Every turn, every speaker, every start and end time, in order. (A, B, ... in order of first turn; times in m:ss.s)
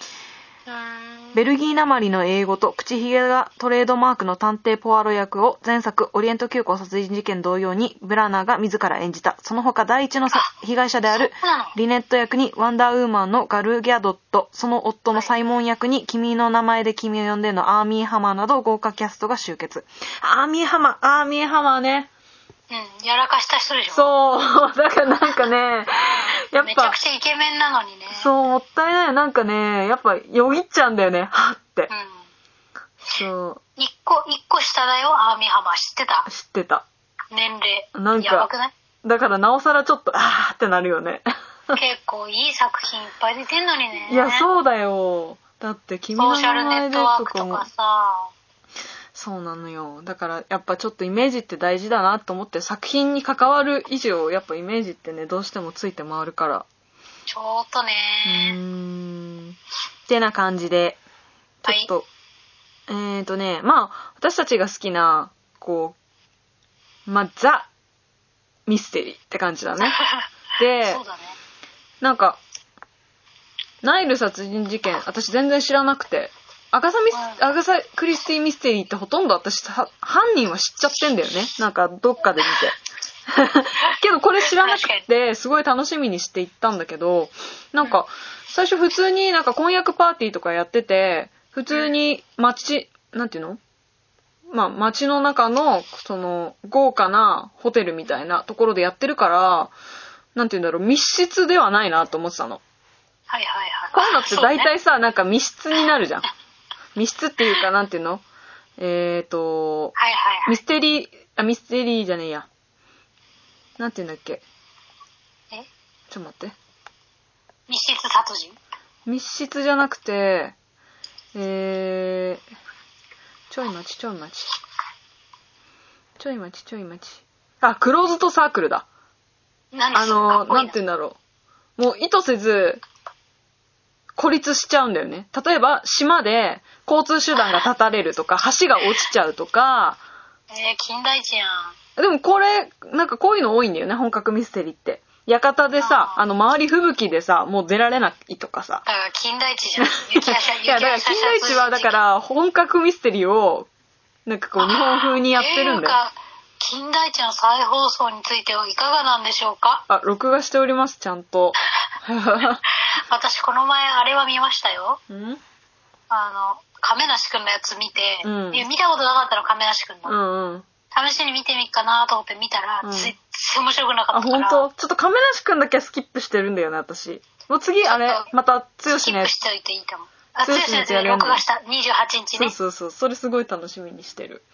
0:00.7-0:01.4 A
0:01.3-0:22.1 B
0:11.1-0:11.8 A
0:22.7-0:24.1 A
0:23.9-0:27.0 B
0:26.2-0:28.3 A
0:28.1-0:31.9 B
0:31.9-0:32.2 A
0:33.0-0:33.6 B
0:33.8-0:36.3 A
0:36.2-0:36.8 B
0:37.3-0:38.7 A
0:37.9-0:38.5 B
0:39.0-0:41.8 B
0:41.7-0:44.5 A
0:44.1-0:47.6 B
0:46.2-0:48.3 A
0:49.1-0:56.6 B
0:57.3-0:58.6 A
0:58.2-0:59.6 B
1:00.1-1:01.0 B
1:01.6-1:02.0 B
1:02.9-1:06.0 B
1:07.1-1:07.7 B
1:08.7-1:10.0 B
1:09.8-1:10.3 A
1:10.6-1:11.0 B
1:10.8-1:11.4 A
1:12.0-1:12.4 B
1:13.8-1:22.8 B
1:17.1-1:17.5 A
1:23.3-1:33.6 B
1:24.5-1:25.0 A
1:34.5-1:39.7 B
1:40.3-1:42.6 B
1:43.3-1:44.7 A
1:43.9-1:46.2 B
1:47.0-1:48.2 B
1:48.8-1:49.9 B
1:50.0-1:50.6 A
1:50.5-1:52.5 B
1:53.8-1:54.4 B
1:56.1-1:56.5 B
1:57.7-1:58.6 A
1:59.0-2:00.5 B
2:01.3-2:02.4 B
2:03.5-2:04.5 B
2:06.2-2:08.8 B
2:09.7-2:10.8 A
2:09.9-2:11.2 B
2:11.8-2:12.8 B
2:14.2-2:20.0 B
2:20.5-2:21.8 A
2:22.0-2:28.8 B
2:25.8-2:26.2 A
2:28.8-2:32.0 A
2:29.8-2:33.7 B
2:34.2-2:36.0 B
2:34.6-2:39.8 A
2:39.9-2:42.6 B
2:43.0-2:45.0 A
2:45.1-2:45.4 B
2:46.1-2:50.2 A
2:48.2-2:48.6 B
2:50.0-2:50.6 B
2:50.9-2:54.7 A
2:52.8-2:53.1 B
2:54.1-2:59.3 B
2:57.8-2:58.3 A
2:58.9-3:02.5 A
3:00.4-3:01.4 B
3:02.4-3:04.4 B